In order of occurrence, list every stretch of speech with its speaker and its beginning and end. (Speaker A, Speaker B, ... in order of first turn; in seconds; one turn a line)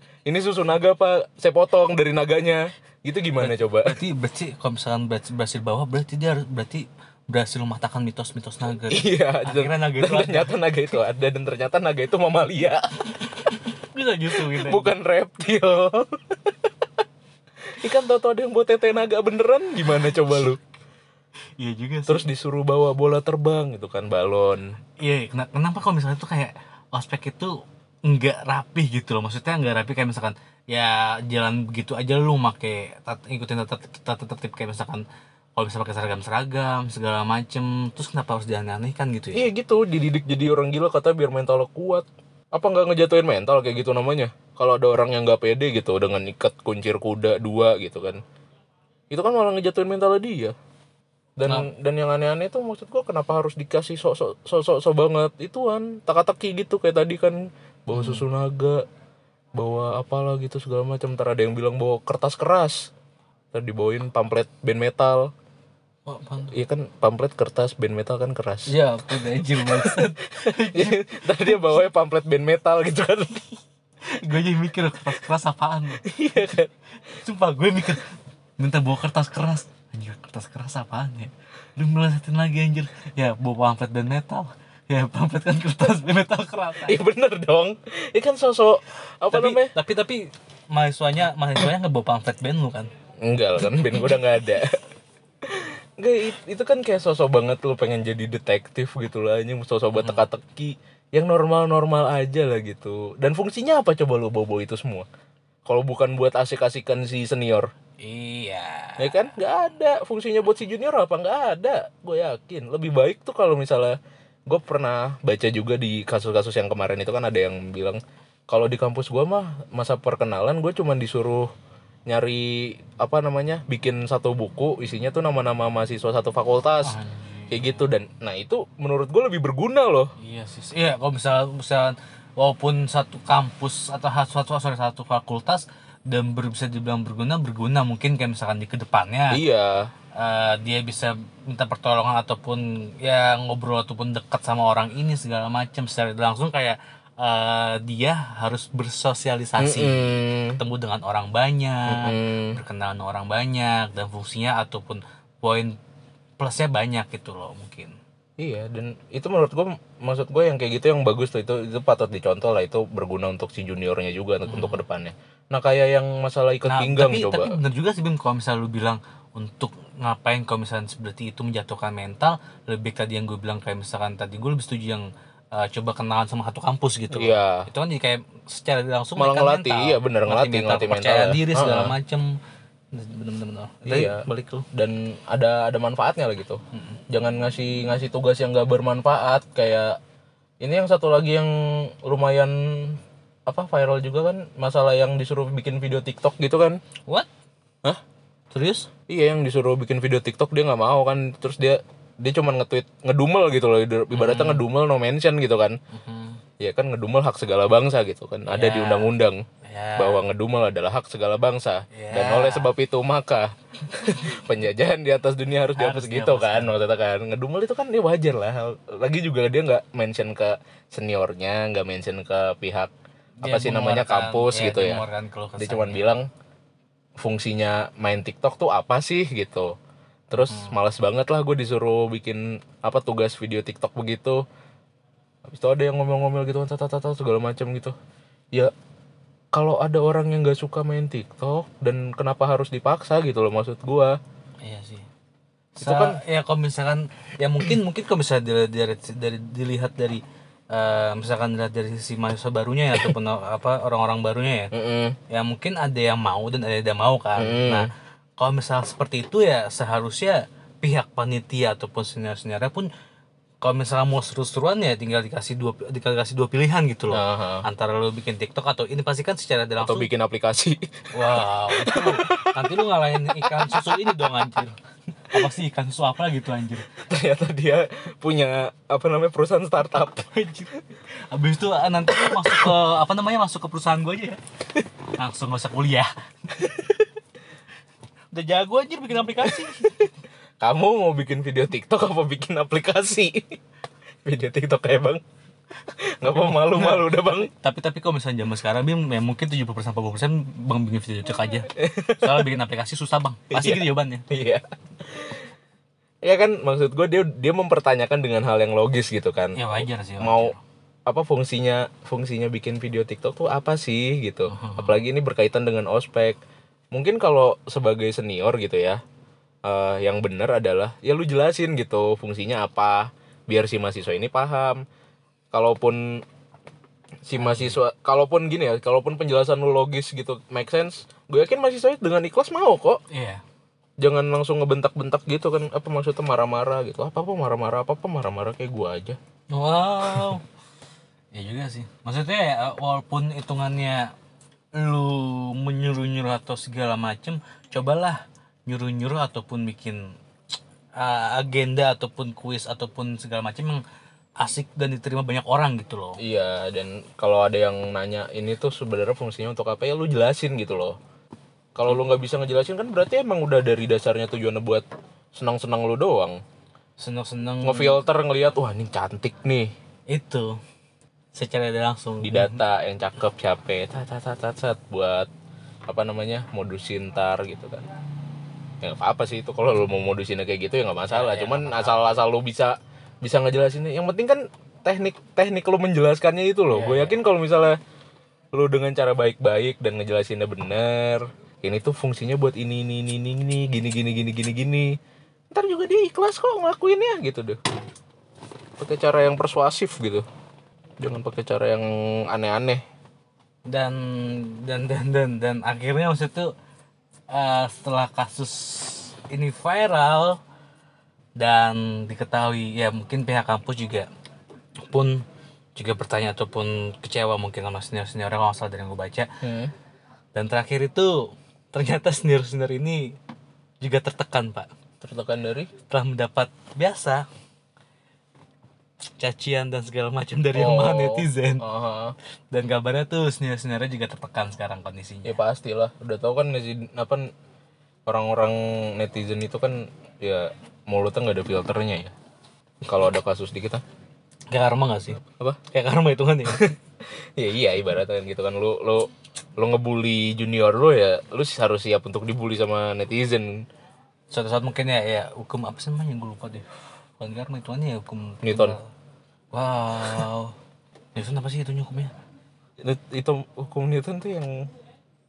Speaker A: 0.2-4.0
Speaker B: 3.4-10.6
Speaker A: 8.9-13.3
Speaker B: 13.8-14.9
Speaker A: 14.4-16.7
Speaker A: 17.8-20.6
Speaker B: 21.6-22.3
Speaker A: 22.1-24.8
Speaker B: 25.0-35.0
Speaker B: 35.6-39.5
Speaker A: 39.3-48.2
Speaker A: 49.1-50.5
Speaker A: 51.4-58.8
Speaker B: 57.9-58.2
Speaker A: 59.5-62.9
Speaker A: 63.5-65.3
Speaker B: 66.1-66.5
Speaker A: 66.5-68.7
Speaker B: 68.7-71.5
Speaker A: 69.4-73.5
Speaker B: 74.1-76.1
Speaker A: 76.0-76.7
Speaker B: 77.1-87.0
Speaker A: 86.9-89.7
Speaker B: 89.3-92.9
Speaker A: 93.2-94.8
Speaker A: 95.4-105.1
Speaker B: 100.0-100.2
Speaker A: 105.7-107.7
Speaker B: 108.0-109.2
Speaker A: 109.0-114.0
Speaker A: 114.5-121.5
Speaker A: 122.1-127.0
Speaker B: 126.8-127.8
Speaker A: 127.5-130.1
Speaker B: 130.2-139.4
Speaker A: 139.3-139.9
Speaker B: 140.2-155.8
Speaker A: 149.6-150.6
Speaker A: 151.9-152.6
Speaker B: 156.4-158.0
Speaker A: 158.4-167.6
Speaker B: 164.5-164.8
Speaker B: 166.7-182.4
Speaker A: 177.1-177.7
Speaker A: 179.2-181.9
Speaker B: 182.9-184.7
Speaker A: 183.8-190.0
Speaker B: 186.7-187.0
Speaker A: 190.6-196.8
Speaker B: 198.5-198.9
Speaker A: 199.1-205.8
Speaker B: 204.1-204.6
Speaker B: 205.9-206.4
Speaker A: 206.6-209.4
Speaker B: 208.5-210.3
Speaker A: 210.0-222.9
Speaker B: 211.9-212.7
Speaker B: 215.8-216.7
Speaker B: 223.4-226.1
Speaker A: 223.4-225.0
Speaker A: 225.6-226.3
Speaker A: 227.2-229.7
Speaker A: 230.3-234.4
Speaker B: 230.5-230.8
Speaker A: 235.4-237.9
Speaker A: 239.5-244.2
Speaker B: 244.6-245.1
Speaker B: 245.8-254.7
Speaker A: 245.8-246.2
Speaker A: 254.7-255.2
Speaker B: 255.3-262.9
Speaker A: 257.4-257.9
Speaker B: 263.6-270.1
Speaker A: 267.1-267.6
Speaker A: 269.8-274.1
Speaker B: 271.1-274.8
Speaker B: 275.3-276.9
Speaker A: 277.0-280.4
Speaker B: 280.3-284.4
Speaker A: 282.2-282.7
Speaker B: 285.2-286.9
Speaker B: 288.3-290.1
Speaker A: 290.6-293.6
Speaker A: 294.2-295.2
Speaker A: 295.9-297.5
Speaker B: 296.3-304.2
Speaker A: 301.8-302.5
Speaker A: 303.5-305.4
Speaker A: 306.2-310.5
Speaker B: 309.6-310.6
Speaker A: 311.1-316.4
Speaker B: 314.5-315.0
Speaker A: 316.9-319.0
Speaker A: 319.6-324.8
Speaker A: 325.5-326.2
Speaker A: 327.2-333.0
Speaker B: 327.4-327.8
Speaker B: 333.1-333.4
Speaker A: 334.0-339.2
Speaker B: 339.5-340.4
Speaker B: 341.3-344.1
Speaker B: 344.8-350.2
Speaker B: 351.0-353.8
Speaker B: 354.4-356.2
Speaker A: 356.2-361.0
Speaker A: 361.8-366.4
Speaker B: 367.0-368.0
Speaker A: 367.6-369.7
Speaker B: 370.1-370.6
Speaker B: 371.4-372.6
Speaker A: 372.2-375.3
Speaker A: 375.9-377.9
Speaker A: 378.8-387.8
Speaker B: 381.1-382.1
Speaker B: 386.7-387.2
Speaker A: 388.5-395.0
Speaker A: 395.5-397.6
Speaker A: 398.8-400.3
Speaker A: 401.0-402.8
Speaker B: 403.7-406.5
Speaker B: 407.3-410.4
Speaker B: 411.4-414.1
Speaker B: 414.9-415.2
Speaker B: 415.8-419.3
Speaker A: 419.4-419.7
Speaker B: 420.4-423.2
Speaker B: 423.8-424.7
Speaker A: 425.0-425.7
Speaker B: 425.9-427.3
Speaker B: 429.2-431.6
Speaker A: 430.5-432.1
Speaker B: 432.5-435.4
Speaker A: 435.2-437.3
Speaker A: 438.1-442.1
Speaker A: 442.9-443.8
Speaker B: 444.5-446.8
Speaker A: 445.3-445.6
Speaker A: 446.5-446.7
Speaker A: 447.4-453.7
Speaker B: 454.3-456.7
Speaker B: 457.2-458.9
Speaker A: 458.4-458.8
Speaker B: 459.5-460.6
Speaker B: 461.1-462.1
Speaker A: 462.8-464.7